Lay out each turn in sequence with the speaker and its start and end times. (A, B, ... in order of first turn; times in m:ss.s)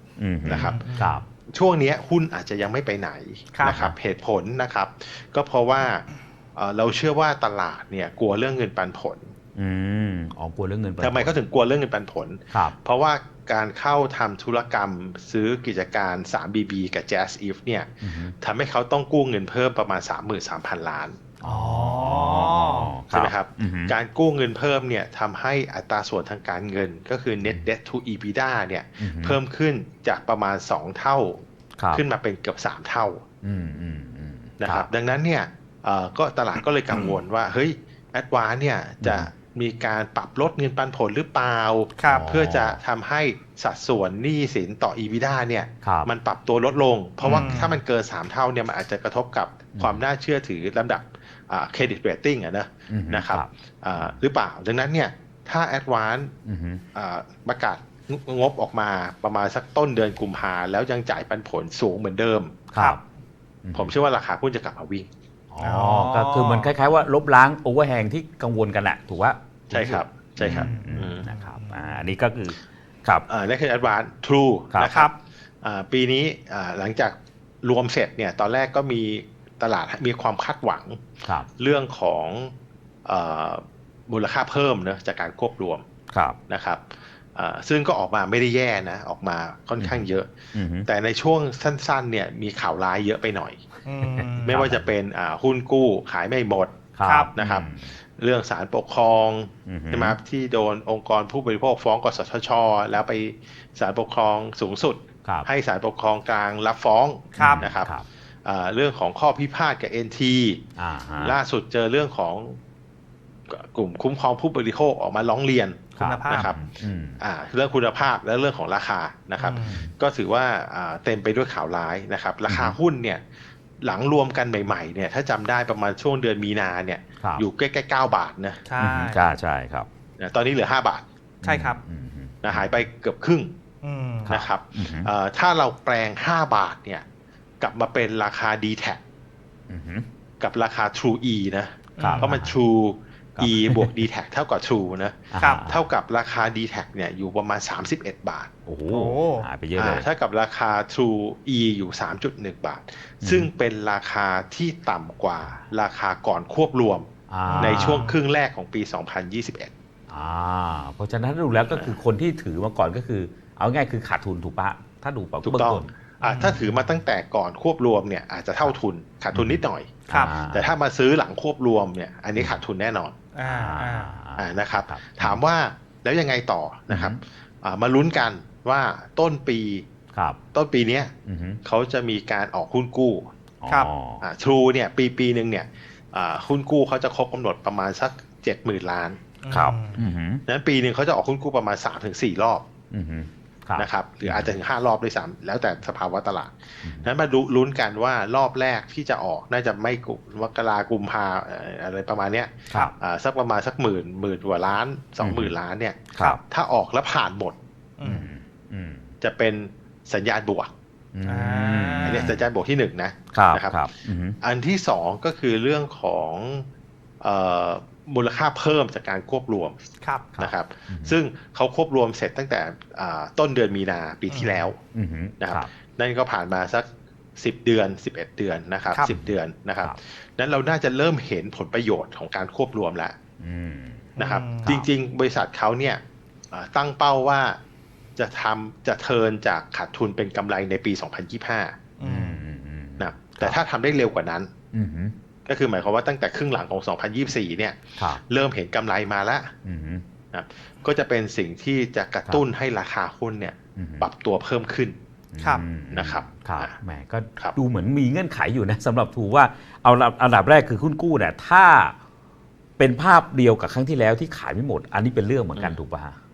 0:00.2-0:01.2 A
0:00.5-0:00.8 B
0:00.5-0:01.2 C
0:01.5-0:09.3 B
0:03.5-0:03.8 C
0:03.6-0:03.9 A
0:09.6-0:11.3 A
0:11.0-0:21.2 B
0:18.0-0:18.3 A
0:21.4-0:23.9 A
0:21.4-0:22.9 C
0:23.1-0:33.2 B
0:29.0-0:29.4 A
0:33.4-0:34.9 A
0:34.6-0:56.3 B
0:39.0-0:39.3 A
0:42.0-0:42.3 C
0:42.0-0:42.8 A
0:45.8-0:46.1 A
0:47.2-0:47.8 C
0:47.2-0:47.5 A
0:49.7-0:50.0 A
0:52.9-0:54.1 A
0:56.4-0:56.8 A
0:56.9-1:02.6 B
1:02.7-1:03.0 A
1:03.6-1:03.9 A
1:03.7-1:05.1 B
1:05.5-1:13.2 A
1:05.6-1:06.7 C
1:09.7-1:11.3 B
1:10.4-1:12.0 C
1:13.3-1:21.0 B
1:14.8-1:15.1 C
1:21.6-1:22.5 B
1:23.0-1:25.8 B
1:26.1-1:26.4 A
1:26.5-1:30.3 B
1:29.8-1:30.9 A
1:30.8-1:33.6 B
1:33.8-1:34.5 C
1:34.0-1:34.9 A
1:34.4-1:36.7 B
1:37.0-1:37.9 A
1:37.0-1:37.3 C
1:37.4-1:47.9 B
1:39.6-1:40.2 A
1:47.4-1:47.6 C
1:47.4-1:48.0 A
1:48.4-1:50.6 B
1:50.8-1:51.4 A
1:51.2-1:52.6 B
1:53.5-1:56.6 B
1:56.0-1:57.2 A
1:56.0-1:56.5 C
1:57.2-2:03.2 B
1:59.4-1:59.8 C
1:59.6-1:59.9 A
2:02.5-2:02.8 A
2:03.8-2:08.6 B
2:08.6-2:09.2 C
2:08.8-2:09.9 A
2:10.2-2:11.0 B
2:11.4-2:12.7 A
2:11.4-2:11.8 C
2:12.4-2:13.5 B
2:13.8-2:14.3 C
2:14.2-2:15.1 A
2:14.3-2:17.0 B
2:17.6-2:19.0 B
2:19.7-2:20.0 A
2:20.4-2:28.5 B
2:22.0-2:22.3 C
2:22.0-2:22.6 A
2:23.4-2:24.0 A
2:25.3-2:25.8 A
2:28.6-2:30.0 A
2:28.9-2:29.5 C
2:29.8-2:37.1 B
2:33.2-2:33.5 A
2:37.3-2:38.1 A
2:37.4-2:38.1 C
2:37.6-2:39.7 B
2:40.1-2:45.9 A
2:41.7-2:42.0 B
2:45.4-2:53.1 B
2:46.2-2:46.6 C
2:49.3-2:50.8 A
2:50.1-2:50.3 C
2:52.3-2:52.6 A
2:53.3-2:54.1 C
2:53.4-2:55.4 A
2:54.4-2:59.8 B
2:56.9-2:57.2 A
3:00.5-3:03.3 B
3:01.2-3:01.6 A
3:03.6-3:04.2 A
3:04.2-3:09.2 B
3:09.4-3:10.0 C
3:09.5-3:10.4 A
3:10.5-3:12.6 B
3:12.9-3:14.5 A
3:13.8-3:27.6 B
3:16.8-3:17.1 A
3:25.2-3:25.5 A
3:28.0-3:28.3 C
3:28.0-3:29.1 A
3:29.2-3:30.7 B
3:31.1-3:32.4 A
3:31.2-3:32.3 C
3:32.0-3:33.8 B
3:33.3-3:34.4 A
3:34.4-3:36.7 B
3:37.2-3:39.8 B
3:40.0-3:40.3 C
3:40.4-3:41.2 A
3:40.4-3:44.8 B
3:44.3-3:44.7 C
3:44.9-3:45.7 A
3:45.4-3:46.8 B
3:47.4-3:53.2 B
3:49.1-3:50.0 A
3:53.4-3:54.9 A
3:54.2-3:54.8 C
3:54.2-3:56.0 B
3:56.5-3:57.6 B
3:58.2-4:01.8 B
4:02.0-4:02.4 C
4:02.0-4:03.6 A
4:03.0-4:04.5 B
4:04.7-4:05.1 A
4:05.4-4:09.5 B
4:08.0-4:08.2 A
4:09.6-4:10.0 A
4:10.3-4:15.0 B
4:13.8-4:14.0 A
4:15.3-4:21.9 A
4:15.9-4:16.7 B
4:22.8-4:26.2 A